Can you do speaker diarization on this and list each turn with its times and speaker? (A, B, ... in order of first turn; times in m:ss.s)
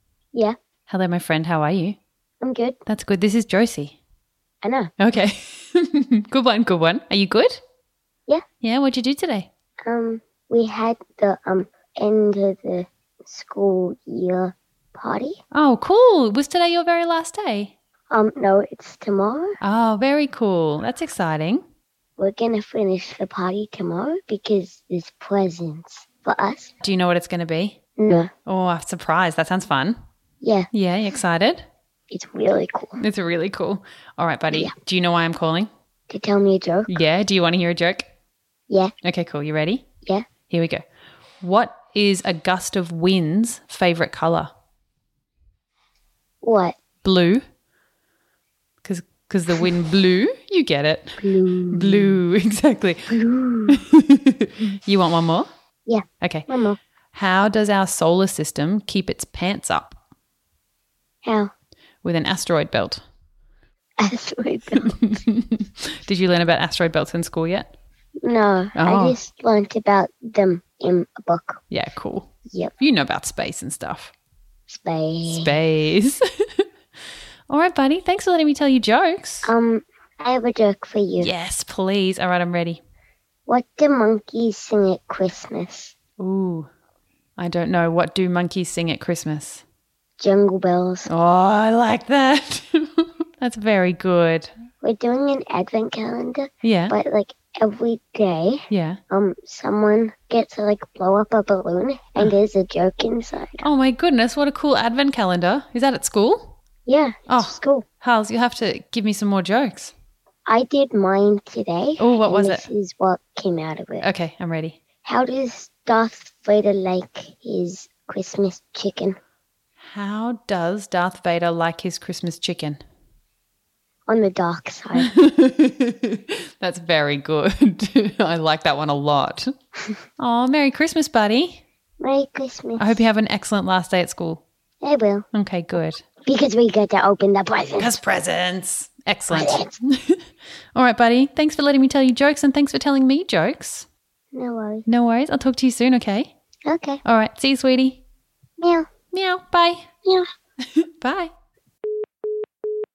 0:00.9-0:02.0 A
0:02.4-0:02.8 B
0:02.9-0:04.0 A
0:04.6-0:04.9 B
0:05.0-0:07.6 A
0:08.6-0:09.5 A
0:09.8-0:15.4 B
0:15.5-0:17.7 A
0:18.1-0:19.6 B
0:19.6-0:21.6 A
0:22.2-0:26.7 B
0:26.8-0:27.8 A
0:28.0-0:28.3 B
0:28.5-0:30.0 A
0:30.4-0:30.7 B
0:30.7-0:31.6 A
0:32.1-0:33.0 B
0:33.0-0:35.7 A
0:36.1-0:36.9 B
0:36.9-0:38.1 A
0:39.0-0:39.8 A
0:40.5-0:40.8 A
0:41.4-0:44.5 A
0:46.4-0:46.8 B
0:47.0-0:47.4 A
0:48.8-0:51.2 A
0:51.2-0:52.2 B
0:51.7-0:53.1 A
0:53.1-0:53.8 B
0:53.7-0:55.5 A
0:55.9-0:56.8 B
0:56.2-0:56.5 A
0:57.1-1:00.0 A
1:01.2-1:01.5 B
1:02.0-1:03.0 A
1:04.0-1:05.0 B
1:05.0-1:07.7 A
1:08.2-1:11.6 B
1:08.7-1:09.2 A
1:11.7-1:14.1 A
1:12.5-1:12.7 B
1:14.7-1:15.6 B
1:15.2-1:16.2 A
1:17.5-1:19.5 A
1:19.4-1:21.3 B
1:21.2-1:22.8 A
1:23.5-1:25.9 B
1:26.2-1:26.7 A
1:27.4-1:29.6 A
1:30.2-1:31.1 B
1:31.1-1:34.5 A
1:34.8-1:43.6 B
1:36.6-1:36.9 A
1:38.7-1:39.0 A
1:43.6-1:46.6 A
1:46.8-1:47.8 B
1:47.3-1:49.9 A
1:50.5-1:54.1 B
1:52.0-1:52.7 A
1:54.0-1:54.8 A
1:55.0-1:59.2 B
1:59.8-2:02.8 A
2:04.1-2:05.1 B
2:05.0-2:09.5 A
2:10.2-2:11.6 A
2:12.0-2:13.0 B
2:12.8-2:14.4 A
2:14.8-2:15.3 B
2:15.3-2:16.0 A
2:16.2-2:18.0 B
2:17.8-2:20.2 A
2:19.3-2:19.8 B
2:20.8-2:23.9 A
2:24.3-2:24.9 B
2:24.9-2:26.3 A
2:26.7-2:27.0 B
2:27.0-2:28.0 A
2:28.6-2:28.9 B
2:29.1-2:29.9 A
2:30.8-2:31.3 A